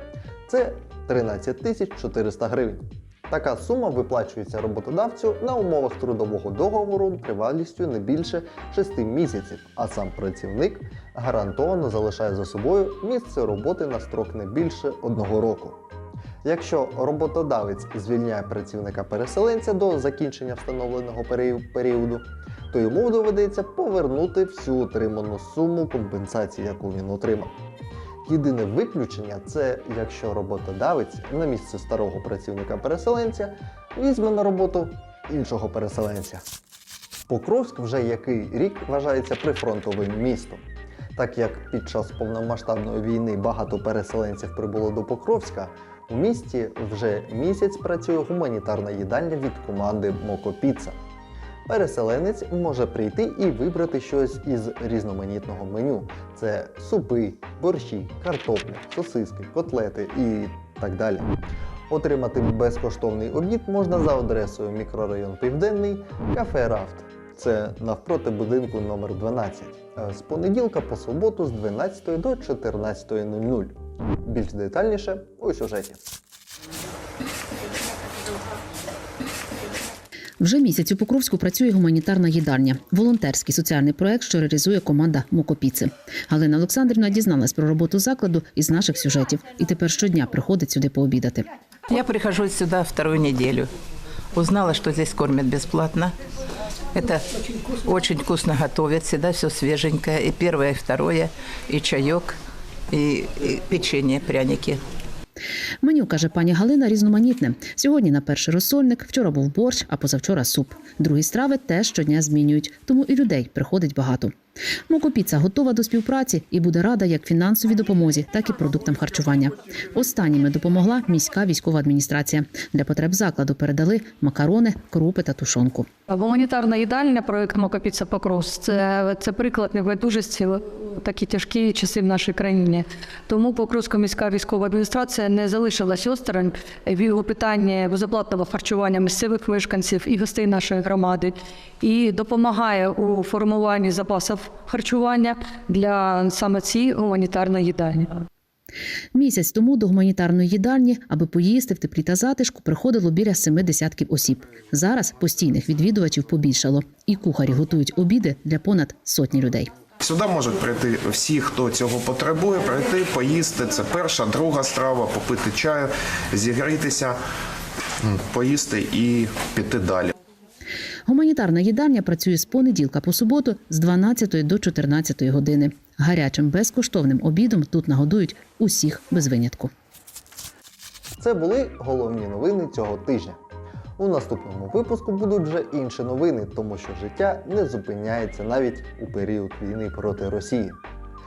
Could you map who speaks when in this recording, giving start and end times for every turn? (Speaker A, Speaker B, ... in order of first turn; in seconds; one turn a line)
Speaker A: 0.5-15.8
Speaker A: 16.4-27.5
Speaker A: 28.2-36.4
Speaker A: 37.3-40.6
Speaker A: 41.2-51.0
Speaker A: 51.7-61.3
Speaker A: 61.9-76.0
Speaker B: 80.4-91.4
Speaker C: 91.9-93.7
Speaker C: 94.3-96.2
Speaker C: 96.9-102.4
Speaker C: 102.9-104.8
Speaker B: 105.8-114.3
Speaker B: 114.9-125.8
Speaker D: 126.1-148.2
Speaker B: 149.2-159.7
Speaker E: 160.0-167.2
Speaker E: 168.0-170.1
Speaker B: 171.1-179.7
Speaker A: 181.2-183.4
Speaker A: 184.0-190.8